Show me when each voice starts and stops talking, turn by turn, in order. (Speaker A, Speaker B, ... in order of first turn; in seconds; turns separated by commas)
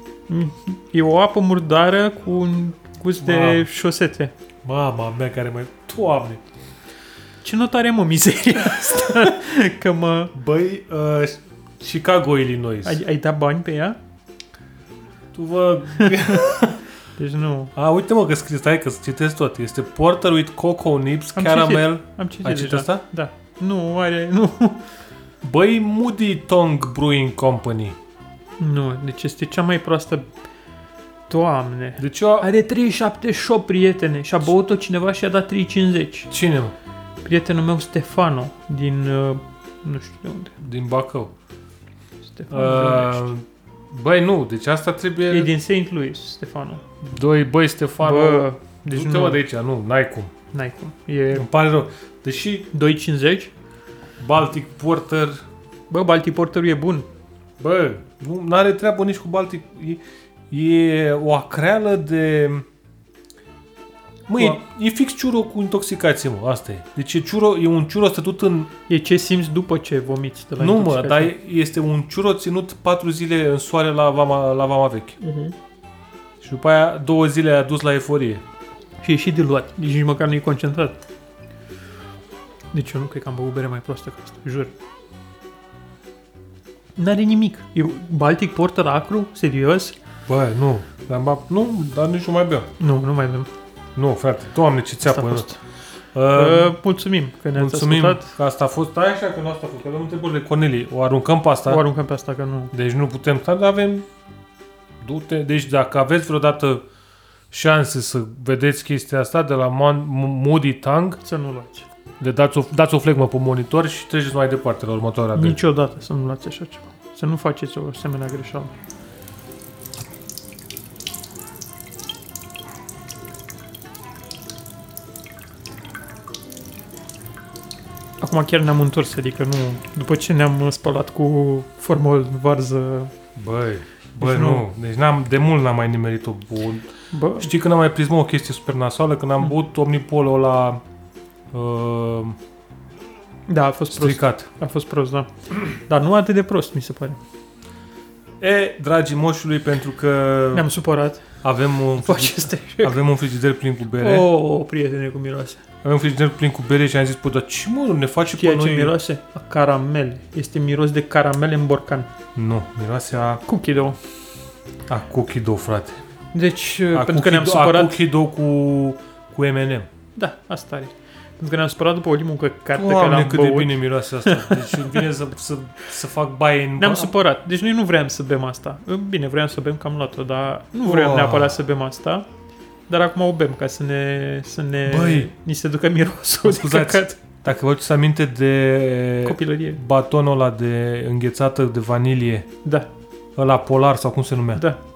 Speaker A: 0.3-4.3, Speaker B: 3.2-3.7, Speaker B: 4.6-6.4, Speaker A: 7.4-10.3, Speaker B: 10.3-13.0, Speaker A: 12.8-14.0, Speaker B: 15.3-16.8, Speaker A: 16.1-16.4, Speaker A: 17.2-17.7, Speaker B: 17.7-23.0, Speaker A: 21.4-24.8, Speaker B: 25.4-28.0, Speaker A: 28.6-30.3, Speaker A: 31.3-36.3, Speaker B: 32.0-32.5, Speaker B: 36.3-36.7, Speaker A: 37.2-40.5, Speaker B: 40.6-41.3, Speaker A: 42.2-43.3, Speaker B: 42.5-45.5, Speaker A: 45.3-46.8, Speaker B: 47.0-50.3, Speaker A: 48.0-49.4, Speaker A: 50.5-51.5, Speaker B: 51.3-52.7, Speaker A: 52.7-53.5, Speaker B: 54.2-55.4, Speaker A: 55.9-57.1, Speaker B: 57.6-62.6, Speaker B: 64.3-68.7, Speaker A: 68.9-71.3, Speaker B: 70.6-75.2, Speaker B: 76.4-78.4, Speaker A: 79.0-81.0, Speaker A: 82.7-84.7, Speaker A: 87.0-89.9, Speaker B: 90.3-92.7, Speaker A: 92.8-93.5, Speaker B: 94.0-95.5, Speaker A: 95.0-95.6, Speaker B: 96.1-96.7, Speaker A: 96.3-98.3, Speaker B: 97.5-101.8, Speaker A: 101.7-102.7, Speaker B: 102.7-104.0, Speaker B: 105.0-106.8, Speaker B: 107.5-111.2, Speaker A: 111.2-111.9, Speaker B: 112.2-115.6, Speaker A: 115.3-118.7, Speaker A: 128.2-133.1, Speaker B: 133.3-140.8, Speaker A: 134.2-134.6, Speaker A: 137.1-137.5, Speaker B: 141.5-142.4, Speaker A: 143.5-147.2, Speaker B: 143.9-144.5, Speaker B: 148.4-150.7, Speaker A: 150.5-151.2, Speaker B: 151.4-154.3, Speaker A: 152.0-153.0, Speaker A: 154.0-155.6, Speaker B: 155.8-159.0, Speaker A: 158.2-162.1, Speaker B: 162.3-163.4, Speaker A: 163.5-164.0, Speaker B: 164.9-166.0, Speaker A: 166.3-168.0, Speaker B: 166.9-169.9, Speaker A: 170.2-174.7, Speaker B: 172.7-177.1, Speaker A: 176.8-182.3, Speaker B: 180.8-181.6, Speaker A: 182.9-187.2, Speaker B: 184.8-185.3, Speaker B: 186.4-192.5, Speaker A: 189.2-189.8, Speaker B: 193.3-194.6